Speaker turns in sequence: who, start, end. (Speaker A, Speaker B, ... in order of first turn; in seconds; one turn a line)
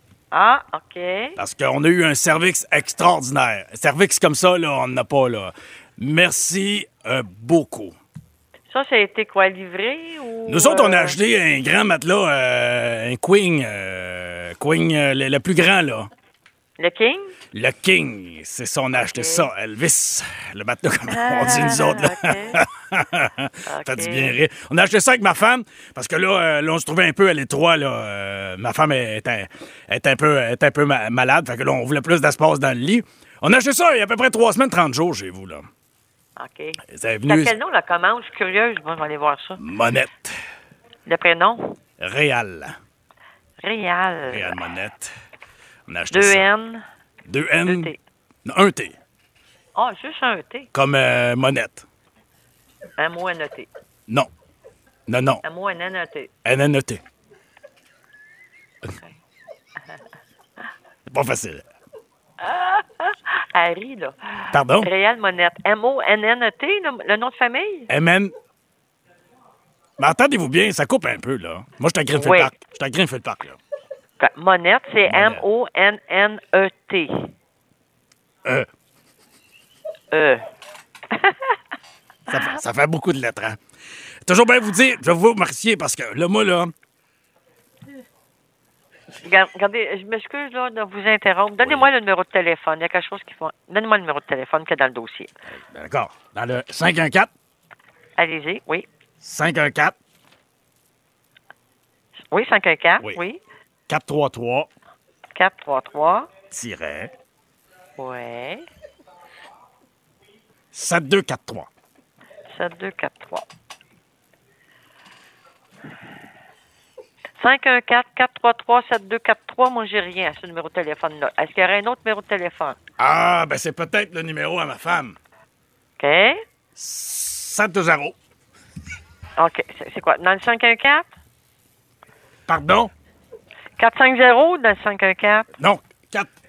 Speaker A: 0.3-1.4
Speaker B: 1.4-8.0
Speaker A: 8.7-11.2
Speaker B: 10.5-16.1
Speaker A: 16.8-17.3
Speaker B: 17.5-35.7
Speaker A: 19.0-19.5
Speaker A: 21.1-22.6
Speaker A: 23.7-24.4
Speaker A: 36.4-39.6
Speaker B: 36.8-37.5
Speaker B: 39.6-40.4
Speaker A: 41.0-41.8
Speaker B: 42.0-42.8
Speaker A: 43.6-44.6
Speaker B: 44.2-45.1
Speaker B: 45.9-46.5
Speaker A: 46.1-46.8
Speaker B: 47.2-47.9
Speaker A: 47.6-48.0
Speaker B: 48.4-49.0
Speaker A: 49.7-50.7
Speaker B: 50.7-51.8
Speaker A: 53.0-53.7
Speaker B: 55.1-55.4
Speaker A: 55.4-56.3
Speaker B: 56.4-57.0
Speaker A: 58.9-59.1
Speaker B: 61.1-61.6
Speaker A: 62.4-67.9
Speaker B: 64.5-64.9
Speaker B: 67.9-68.3
Speaker B: 70.0-73.6
Speaker A: 72.1-72.6
Speaker A: 74.2-77.3
Speaker B: 75.0-75.4
Speaker A: 80.1-80.4
Speaker A: 81.1-81.5
Speaker B: 82.3-83.6
Speaker A: 82.3-82.6
Speaker B: 84.2-86.7
Speaker A: 89.2-95.3
Speaker B: 91.6-91.9
Speaker B: 95.5-97.3
Speaker A: 98.2-98.8
Speaker B: 99.2-100.0
Speaker A: 102.3-103.4
Speaker B: 103.9-104.7
Speaker A: 105.3-106.3
Speaker B: 106.5-107.1
Speaker A: 108.0-108.6
Speaker B: 110.7-111.7
Speaker A: 112.5-113.4
Speaker A: 117.4-122.8
Speaker B: 123.0-125.2
Speaker A: 126.0-126.4
Speaker B: 126.8-128.1
Speaker A: 129.4-131.1
Speaker B: 132.5-132.9
Speaker A: 133.8-135.5
Speaker B: 135.6-136.3